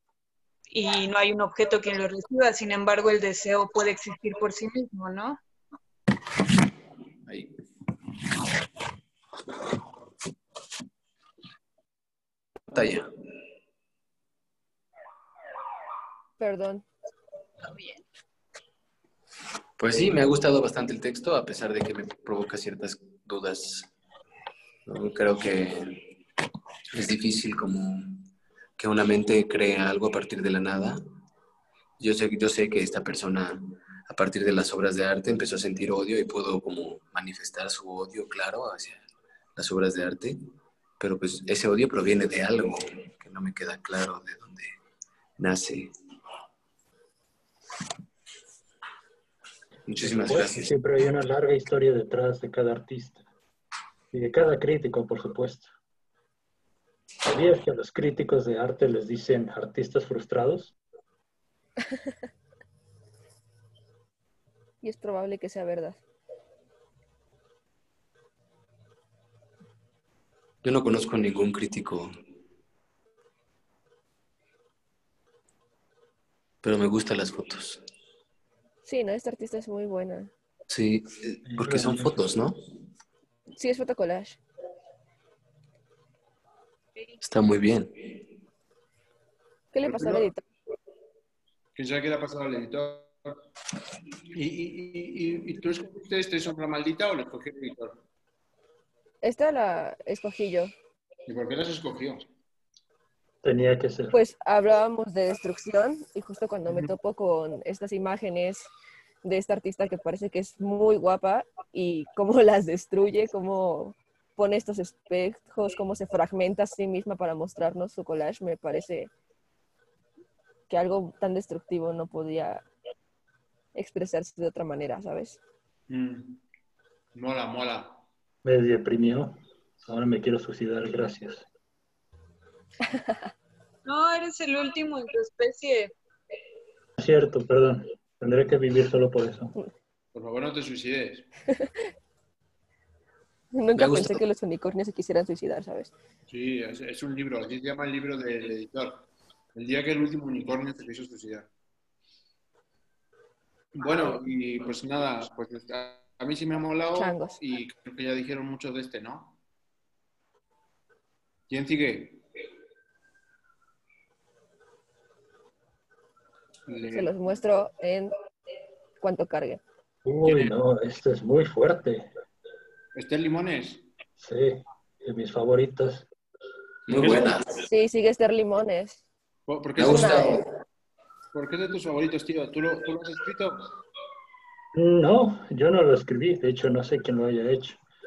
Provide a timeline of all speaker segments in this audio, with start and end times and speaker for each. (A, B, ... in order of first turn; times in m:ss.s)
0:00.7-0:05.4 A
0:12.7-0:13.1 B
0:16.4-0:16.8 C
0:17.7-0:18.0 A
0:19.8-0:23.9 B
0:24.8-0:26.1 B
0:26.9-0:28.3 B
0:28.8-0:31.0 B
0:32.0-0:39.0 B
0:39.6-0:40.4 B
0:41.0-0:44.8 B
0:45.4-0:45.9 B
0:49.9-0:50.7 B
0:50.0-0:53.2 D
0:54.1-0:55.7 D
0:57.2-1:00.7 D
1:04.8-1:06.0 C
1:10.6-1:12.1 B
1:16.6-1:17.8 B
1:18.8-1:20.3 C
1:20.7-1:22.6 B
1:21.4-1:22.2 D
1:23.6-1:24.4 C
1:27.2-1:28.1 B
1:29.7-1:30.4 C
1:29.8-1:30.3 E
1:31.7-1:33.1 E
1:34.3-1:38.0 E
1:39.2-1:40.7 C
1:41.3-1:42.2 E
1:43.4-1:44.2 D
1:44.1-1:48.7 C
1:49.2-1:59.1 C
2:00.7-2:02.6 C
2:03.7-2:05.4 C
2:05.9-2:06.4 E
2:07.1-2:08.0 E
2:08.4-2:11.4 D
2:13.8-2:15.9 A
2:17.0-2:19.5 D
2:20.1-2:21.3 E
2:23.5-2:25.9 C
2:23.8-2:24.2 B
2:26.3-2:31.5 E
2:33.7-2:39.4 E
2:36.9-2:37.4 C
2:41.5-2:42.2 E
2:46.7-2:47.1 E
2:46.9-2:48.1 C
2:49.0-2:49.6 C
2:50.0-2:52.1 D
2:50.2-2:50.5 E
2:52.9-2:53.8 E
2:54.2-2:56.1 D
2:56.9-2:57.5 B
2:57.0-2:57.3 E
2:57.6-2:59.0 C
2:59.5-3:00.4 E
2:59.8-3:00.5 B
2:59.8-3:00.4 C
3:01.3-3:03.7 E
3:04.7-3:07.8 D